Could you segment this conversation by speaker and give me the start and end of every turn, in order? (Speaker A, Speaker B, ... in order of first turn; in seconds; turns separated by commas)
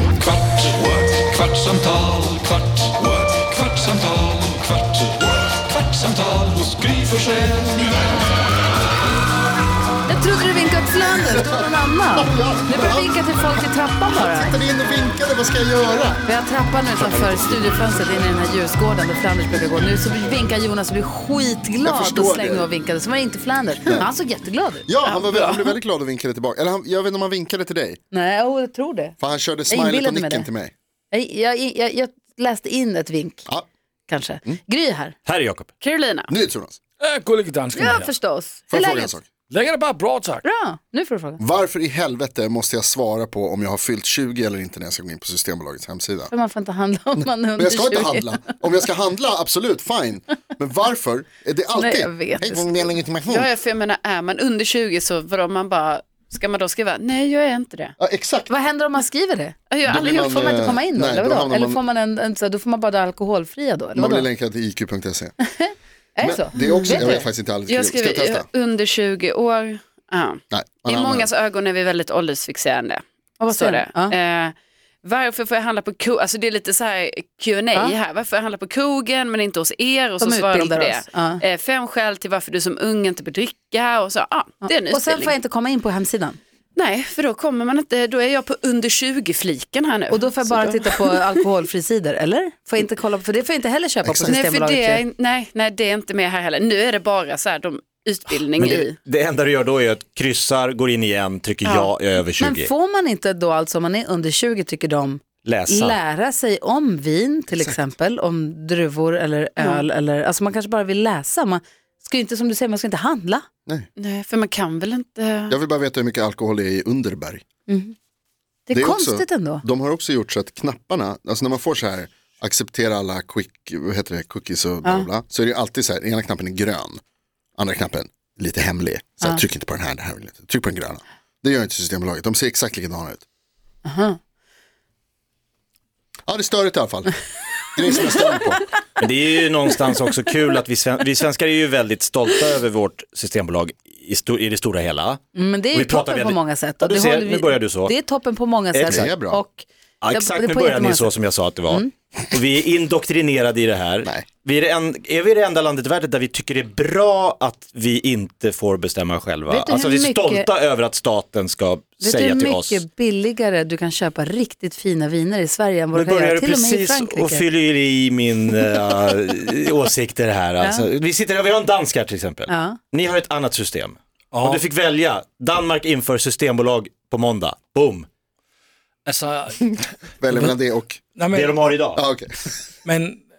Speaker A: 0.7-5.2, Speaker A: 5.9-6.9, Speaker B: 7.0-7.7, Speaker C: 10.1-14.6, Speaker D: 11.0-16.2, Speaker C: 16.2-25.2, Speaker D: 21.8-22.7, Speaker D: 24.9-28.0, Speaker C: 28.1-29.2, Speaker D: 29.2-30.7, Speaker C: 29.7-30.5, Speaker C: 31.1-33.5, Speaker C: 34.1-35.2, Speaker E: 35.3-35.7, Speaker F: 35.8-36.3, Speaker D: 36.3-36.8, Speaker B: 37.0-38.1, Speaker C: 37.7-39.2, Speaker D: 38.7-39.2, Speaker B: 39.5-40.4, Speaker C: 40.4-41.4, Speaker D: 41.4-46.3, Speaker C: 46.3-48.6, Speaker D: 47.6-53.5, Speaker C: 51.7-52.9, Speaker F: 53.2-57.9, Speaker D: 58.0-58.5, Speaker C: 58.5-59.6, Speaker F: 59.7-60.6, Speaker D: 59.9-61.8, Speaker C: 60.3-64.3, Speaker D: 64.0-65.3, Speaker C: 65.5-67.3, Speaker D: 66.2-68.5, Speaker F: 66.6-85.3, Speaker D: 70.5-71.3, Speaker C: 73.4-74.2, Speaker C: 80.2-81.4, Speaker C: 84.6-86.4, Speaker F: 86.8-91.3, Speaker C: 90.1-95.0, Speaker D: 94.0-94.4, Speaker F: 94.3-98.9, Speaker E: 98.6-102.7, Speaker F: 101.6-101.9, Speaker C: 102.4-113.5, Speaker E: 105.4-106.0, Speaker D: 107.5-107.8, Speaker F: 114.0-115.6, Speaker D: 115.5-117.4, Speaker C: 117.7-118.0, Speaker C: 118.7-119.6, Speaker D: 118.7-127.0, Speaker D: 127.6-133.2, Speaker C: 133.8-134.2, Speaker D: 136.3-138.6, Speaker E: 139.0-145.2, Speaker C: 145.3-151.1, Speaker E: 145.7-147.9, Speaker E: 148.7-149.1, Speaker D: 148.9-149.4, Speaker E: 150.0-162.8, Speaker C: 159.5-160.5, Speaker C: 162.0-167.4, Speaker E: 165.9-178.1, Speaker C: 170.6-170.9, Speaker C: 172.5-172.8, Speaker B: 174.3-174.6, Speaker B: 179.1-180.6, Speaker D: 179.7-181.0, Speaker B: 181.2-181.7, Speaker E: 181.3-182.0, Speaker D: 182.0-182.5, Speaker B: 182.8-183.2